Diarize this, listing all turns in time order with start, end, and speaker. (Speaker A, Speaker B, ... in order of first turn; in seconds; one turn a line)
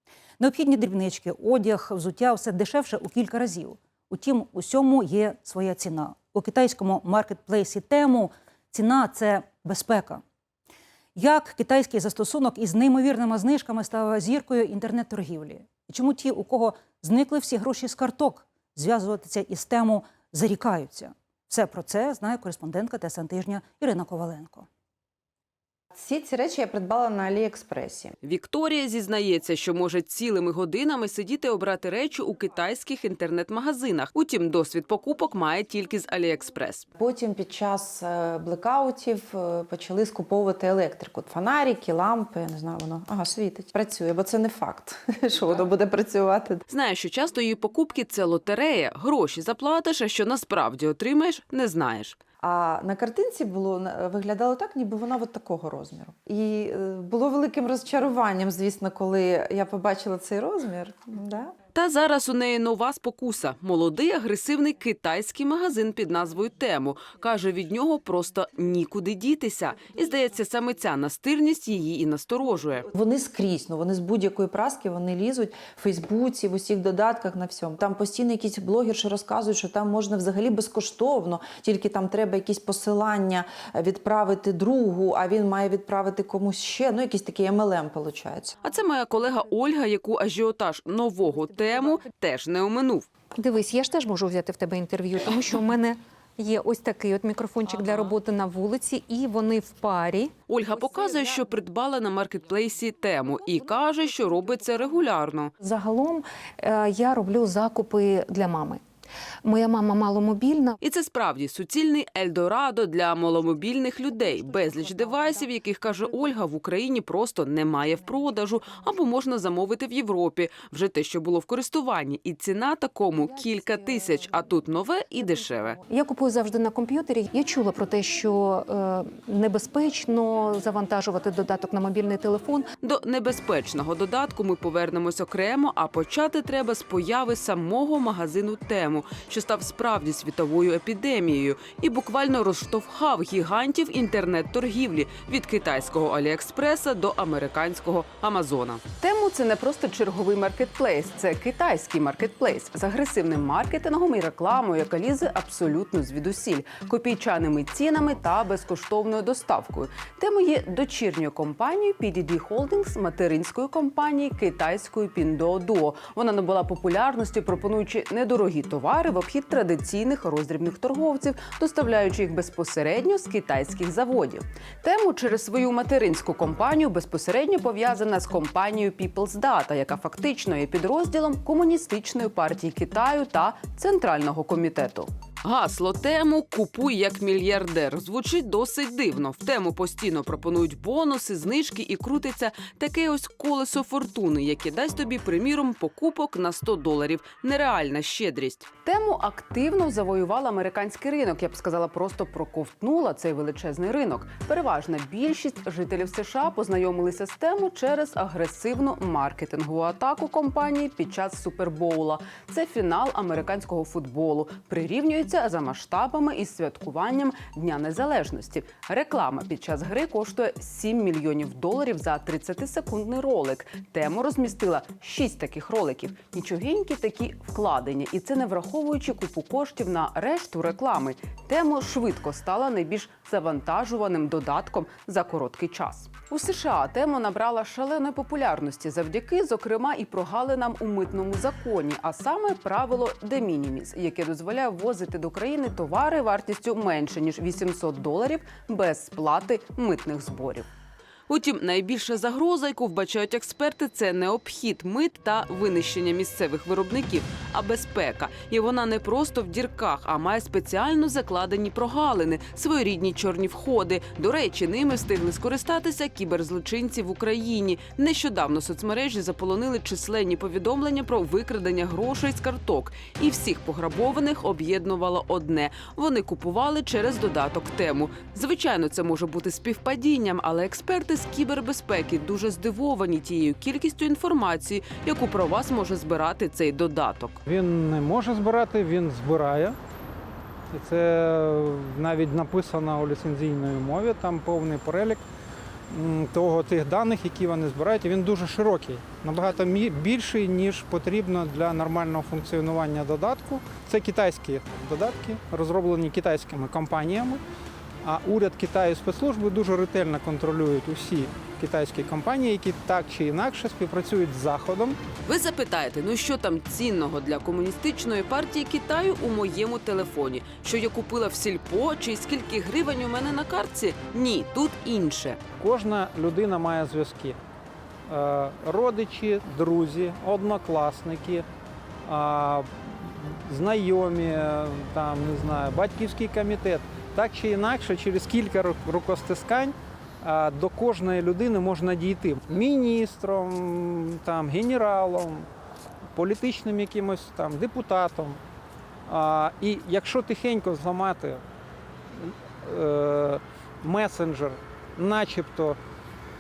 Speaker A: 0.4-10.2
Speaker A: 11.1-24.7
Speaker B: 25.9-28.1
Speaker C: 28.2-36.9
Speaker B: 37.0-46.6
Speaker C: 46.7-52.2
Speaker B: 52.4-61.5
Speaker C: 61.7-72.9
Speaker B: 72.9-88.5
Speaker C: 88.6-93.1
Speaker D: 93.3-100.3
Speaker C: 97.8-98.1
Speaker C: 100.5-105.5
Speaker D: 105.6-108.8
Speaker D: 109.4-110.8
Speaker C: 110.8-125.8
Speaker D: 114.5-115.0
Speaker D: 123.5-124.0
Speaker D: 125.8-132.7
Speaker C: 132.8-250.7
Speaker C: 251.3-287.4
Speaker E: 287.4-289.8
Speaker E: 290.7-295.2
Speaker E: 295.9-307.4
Speaker E: 308.0-315.0
Speaker C: 315.2-325.4
Speaker E: 325.6-327.4
Speaker E: 328.1-331.4
Speaker E: 332.1-345.5
Speaker E: 346.1-348.4
Speaker E: 349.1-351.4
Speaker E: 352.1-355.8